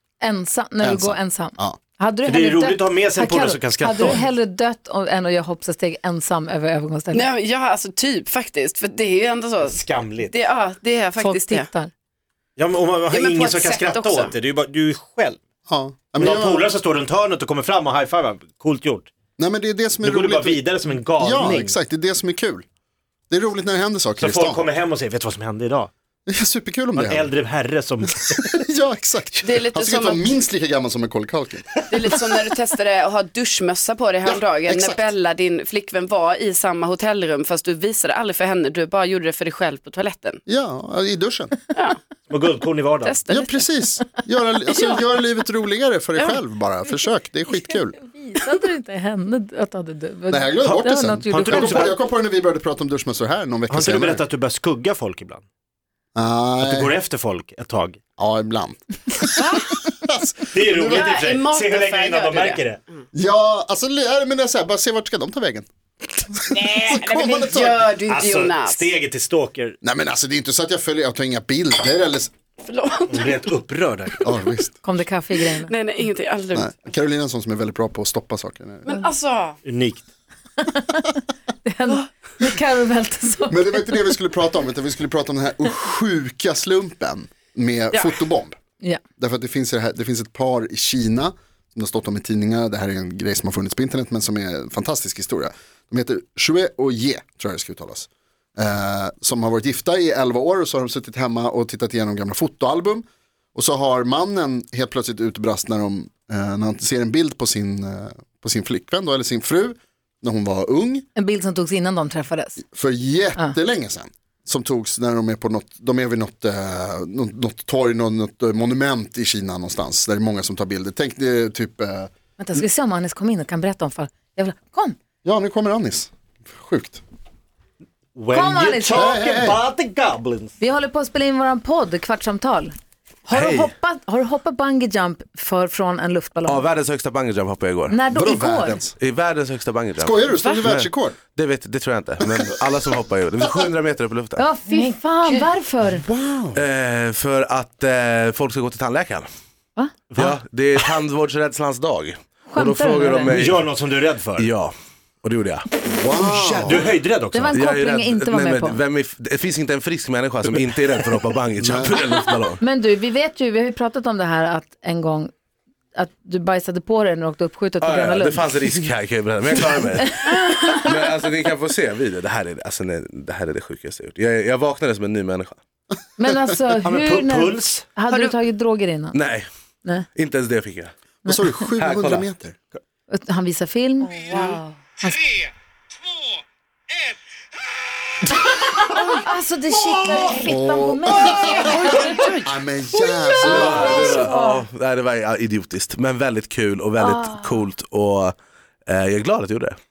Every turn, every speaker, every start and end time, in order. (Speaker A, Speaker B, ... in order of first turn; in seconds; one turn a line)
Speaker A: 0.2-7.3
Speaker B: 0.8-1.8
Speaker C: 2.2-4.3
Speaker D: 7.1-11.7
Speaker C: 9.6-10.3
Speaker A: 11.2-11.9
Speaker C: 12.6-15.4
Speaker D: 13.1-14.3
Speaker B: 15.7-16.7
Speaker C: 16.1-19.1
Speaker B: 19.4-22.6
Speaker C: 20.0-21.8
Speaker B: 23.3-24.7
Speaker C: 24.2-25.9
Speaker B: 26.3-27.3
Speaker C: 26.9-28.6
Speaker B: 28.0-31.8
Speaker D: 29.4-30.3
Speaker D: 31.9-40.4
Speaker B: 34.2-35.1
Speaker B: 40.5-41.5
Speaker C: 42.3-43.2
Speaker D: 43.0-43.7
Speaker B: 43.3-48.0
Speaker A: 47.5-51.9
Speaker B: 50.3-54.2
Speaker C: 51.3-51.9
Speaker C: 53.7-55.4
Speaker B: 56.1-56.9
Speaker C: 56.6-58.0
Speaker B: 58.2-61.1
Speaker D: 59.4-59.8
Speaker C: 60.5-62.8
Speaker D: 60.9-63.0
Speaker B: 63.1-67.8
Speaker D: 66.5-68.9
Speaker C: 68.0-69.8
Speaker B: 69.8-72.3
Speaker D: 72.6-73.5
Speaker C: 73.1-74.2
Speaker B: 74.2-74.8
Speaker A: 74.8-75.7
Speaker D: 75.5-76.7
Speaker B: 76.5-79.0
Speaker D: 78.8-79.6
Speaker C: 79.6-80.1
Speaker A: 80.6-81.0
Speaker A: 81.6-83.9
Speaker B: 83.5-88.6
Speaker D: 87.9-88.2
Speaker B: 89.2-111.0
Speaker A: 111.1-112.6
Speaker B: 112.6-122.1
Speaker A: 122.4-125.0
Speaker B: 125.2-127.0
Speaker C: 128.1-130.5
Speaker A: 128.3-129.2
Speaker B: 128.9-129.6
Speaker A: 130.6-132.7
Speaker A: 133.3-136.7
Speaker E: 133.3-133.7
Speaker E: 136.4-138.0
Speaker A: 137.9-138.8
Speaker B: 138.1-138.9
Speaker E: 139.0-144.5
Speaker B: 140.0-141.2
Speaker D: 140.4-140.7
Speaker B: 143.4-143.7
Speaker A: 144.4-146.0
Speaker B: 146.0-146.6
Speaker E: 146.5-149.3
Speaker C: 150.1-150.9
Speaker E: 150.1-153.7
Speaker A: 152.5-153.4
Speaker C: 153.2-154.5
Speaker E: 154.3-155.6
Speaker B: 156.0-156.9
Speaker C: 156.4-157.6
Speaker A: 157.3-158.8
Speaker E: 157.5-162.6
Speaker B: 161.6-162.0
Speaker A: 162.6-165.3
Speaker A: 165.9-168.8
Speaker E: 167.8-175.6
Speaker A: 169.5-170.9
Speaker A: 176.2-179.2
Speaker C: 176.8-177.8
Speaker E: 179.1-179.5
Speaker E: 180.1-180.9
Speaker A: 181.2-181.5
Speaker B: 181.2-182.6
Speaker E: 181.8-182.3
Speaker A: 183.1-185.3
Speaker D: 184.2-184.6
Speaker A: 188.8-192.2
Speaker B: 190.4-191.8
Speaker D: 191.4-192.5
Speaker B: 192.4-194.2
Speaker E: 193.4-198.3
Speaker A: 193.5-194.6
Speaker A: 197.0-197.6
Speaker E: 198.8-199.8